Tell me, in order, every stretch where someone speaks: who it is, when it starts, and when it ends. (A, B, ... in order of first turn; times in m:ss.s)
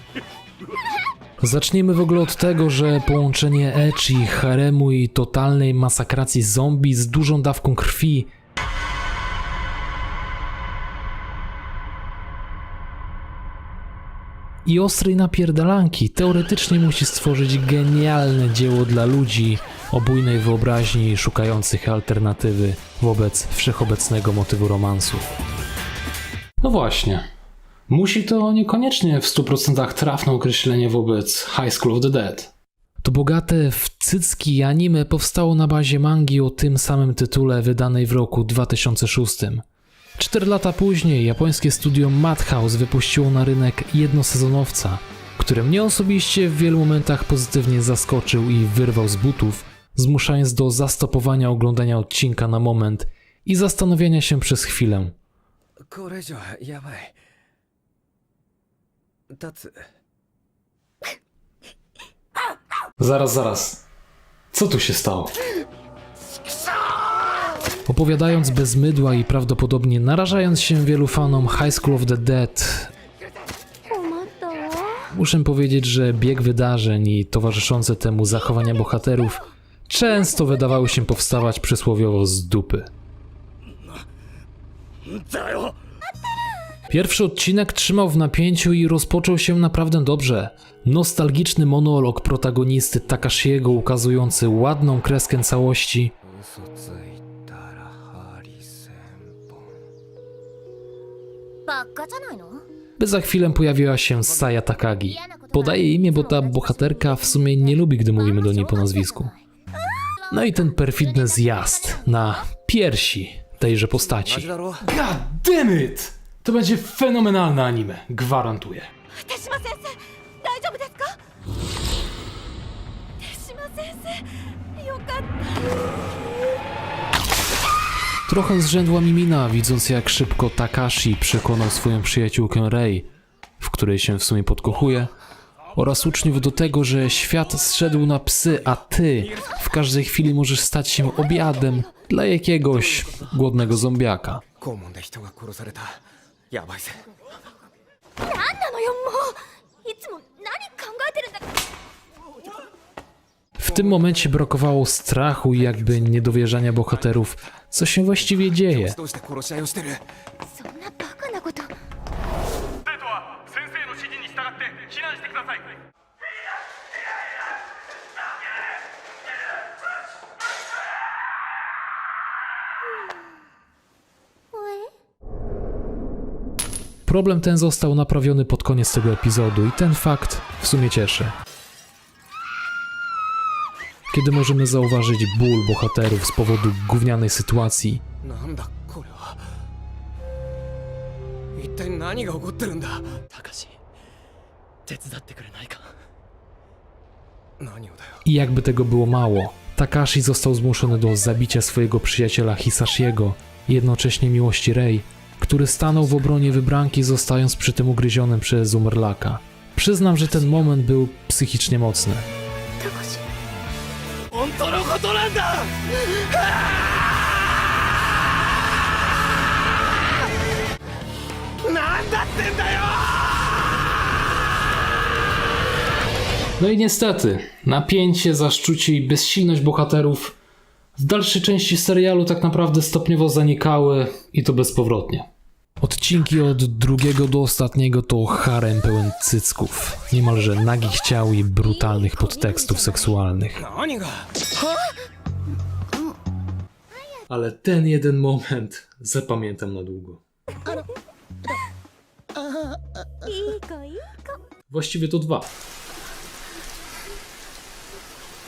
0:01.4-0:08.3 A
0:14.6-0:25.3 A
0:26.6-0:27.2 A
0:27.9-0:39.6 A
0:40.2-0:55.1 A
0:55.9-0:57.1 B
0:59.3-0:59.8 B
1:03.0-1:03.8 A
1:04.5-1:05.3 A
1:07.8-1:12.9 A
1:13.9-1:15.1 C
1:15.1-1:22.9 A
1:26.9-1:36.1 A
1:36.4-1:39.6 B
1:41.7-1:42.6 C
1:43.0-1:49.3 A
1:45.2-1:47.6 C
1:48.4-1:49.3 C
1:50.3-1:58.9 A
1:51.3-1:52.0 C
1:54.2-1:54.8 B
1:59.2-2:01.2 C
2:03.2-2:05.5 C
2:08.3-2:13.1 A
2:13.6-2:15.1 A
2:15.7-2:24.4 A
2:24.6-2:26.0 B
2:26.5-2:27.0 B
2:28.2-2:31.4 C
2:33.6-2:39.0 A
2:39.0-2:40.0 B
2:40.5-2:41.7 C
2:54.5-2:54.9 C
2:57.0-3:01.3 A
3:04.1-3:08.0 A
3:08.2-3:09.4 B
3:11.5-3:13.7 B
3:14.9-3:15.8 B
3:17.6-3:18.2 B
3:18.2-3:32.2 A
3:32.8-3:33.2 C
3:34.3-3:35.9 B
3:41.6-3:43.2 B
3:46.6-3:50.3 A
3:51.0-3:55.3 A
3:55.8-4:03.6 A
4:01.9-4:02.7 C
4:03.7-4:04.2 B
4:07.3-4:10.2 A
4:13.2-4:14.4 C
4:14.7-4:15.5 A